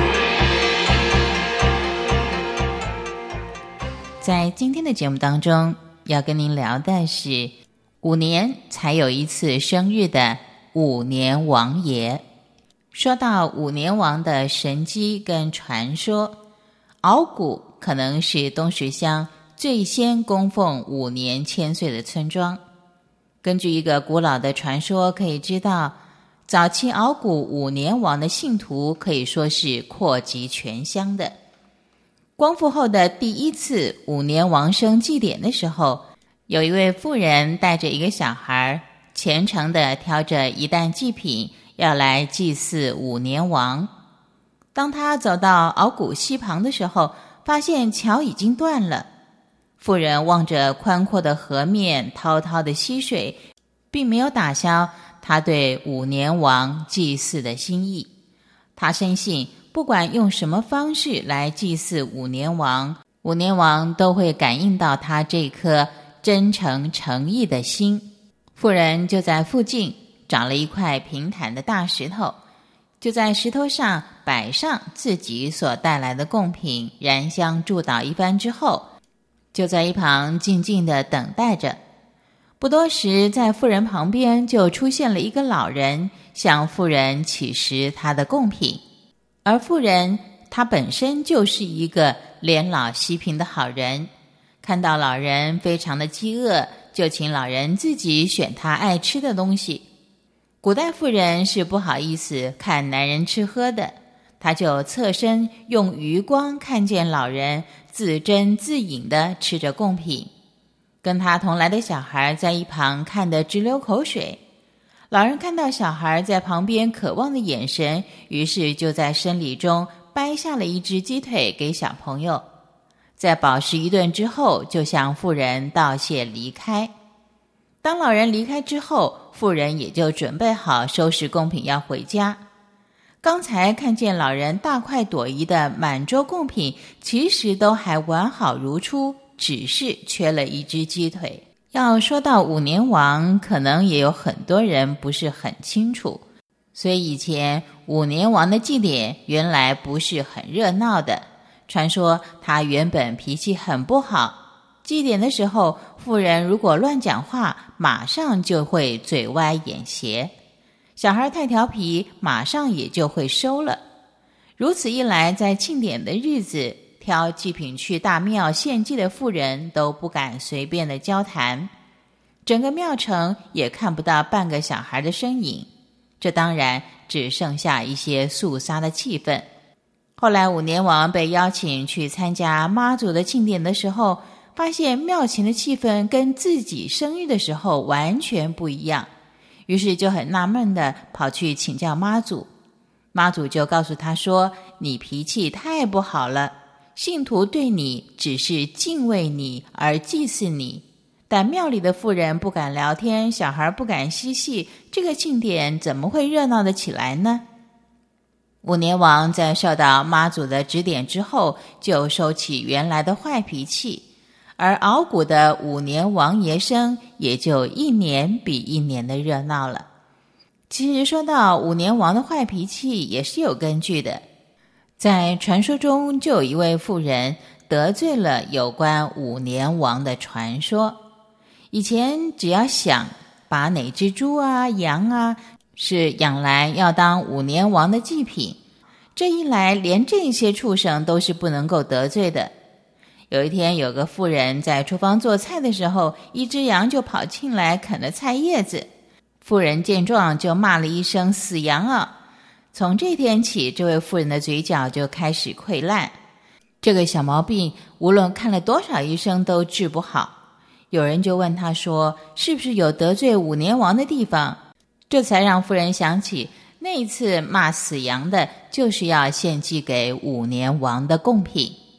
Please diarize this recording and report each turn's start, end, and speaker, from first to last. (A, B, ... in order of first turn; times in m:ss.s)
0:04.2-0:12.2 A
0:12.9-0:16.4 A
0:17.0-0:22.6 A
0:23.4-0:26.0 A
0:26.5-0:31.4 A
0:32.4-0:43.9 A
0:44.7-0:49.1 A
0:49.8-0:53.4 A
0:53.9-0:58.1 A
0:58.8-1:12.4 A
1:13.0-1:18.8 A
1:19.5-1:21.8 A
1:22.6-1:28.8 A
1:29.4-1:34.1 A
1:34.6-1:39.8 A
1:40.6-1:50.3 A
1:51.0-1:54.4 A
1:55.1-2:02.4 A
2:03.2-2:06.9 A
2:07.8-2:12.4 A
2:13.2-2:26.2 A
2:26.7-2:40.3 A
2:41.0-2:43.8 A
2:44.6-2:51.7 A
2:52.4-2:55.7 A
2:56.2-2:59.4 A
3:00.2-3:09.1 A
3:09.7-3:12.5 A
3:13.1-3:27.4 A
3:28.6-3:34.0 A
3:34.6-3:39.9 A
3:40.7-3:44.2 A
3:45.0-3:51.0 A
3:51.7-3:58.6 A
3:59.2-4:02.5 A
4:03.3-4:08.9 A
4:09.4-4:12.1 A
4:12.7-4:16.2 A
4:16.8-4:20.3 A
4:20.9-4:24.6 A
4:25.1-4:31.8 A